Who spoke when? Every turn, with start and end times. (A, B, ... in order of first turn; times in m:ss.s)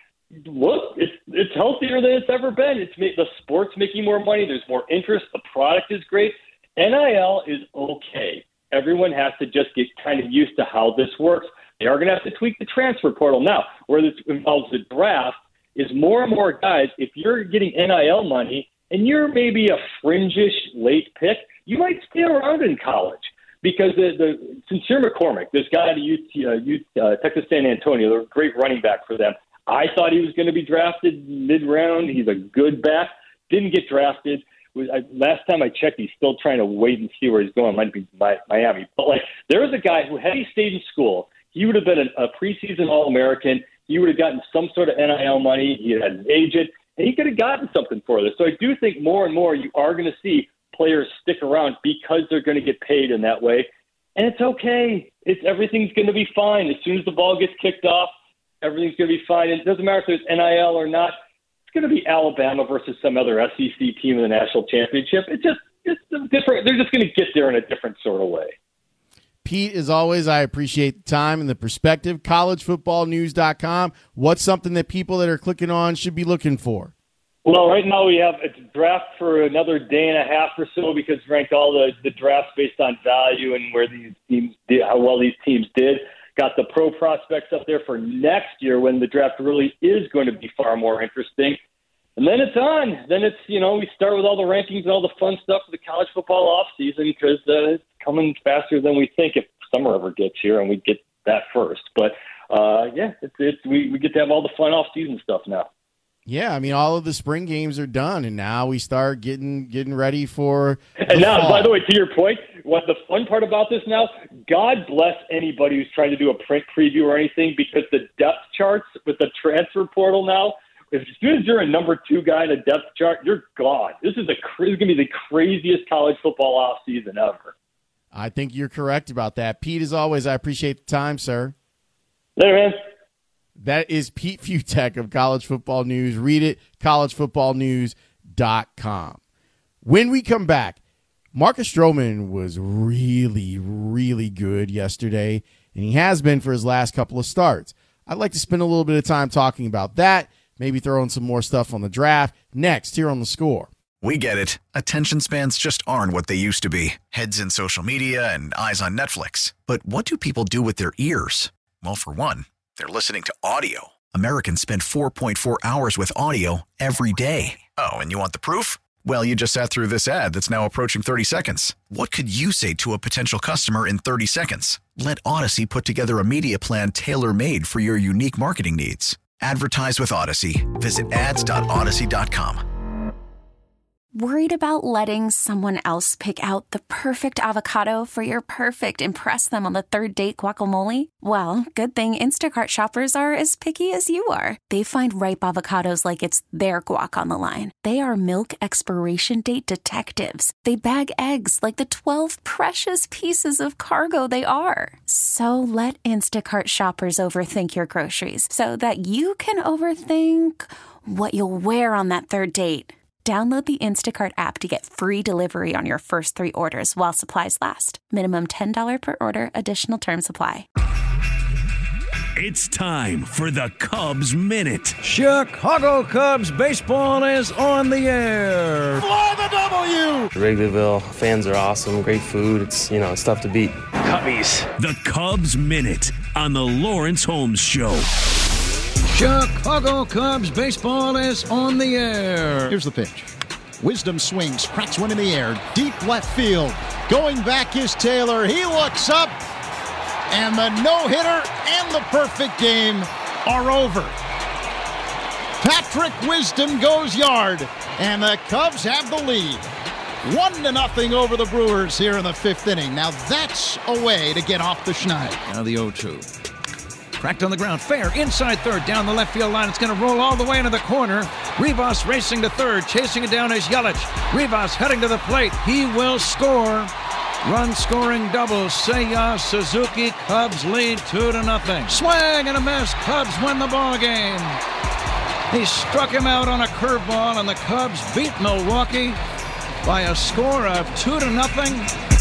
0:00.4-1:01.2 A
1:01.7-1:08.5 A
1:09.4-1:16.9 B
1:17.4-1:31.6 A
1:32.2-1:45.7 A
1:46.3-1:51.8 B
1:51.0-2:07.5 A
2:08.1-2:11.5 B
2:12.4-2:12.8 A
2:13.6-2:19.2 B
2:19.8-2:20.8 B
2:21.3-2:33.7 B
2:34.0-3:02.6 C
3:04.2-3:40.7 D
3:42.4-3:45.0 E
3:45.0-3:49.0 F
3:49.0-3:50.3 G
3:50.4-3:54.7 H
3:54.8-3:58.1 E
3:59.1-4:02.8 F
4:02.7-4:03.3 G
4:03.8-4:09.4 G
4:10.3-4:14.1 G
4:15.6-4:19.6 G
4:20.2-4:25.4 G
4:25.5-4:26.3 F
4:27.2-4:36.9 F
4:37.4-4:44.6 F
4:45.5-4:49.2 F
4:49.8-4:51.9 F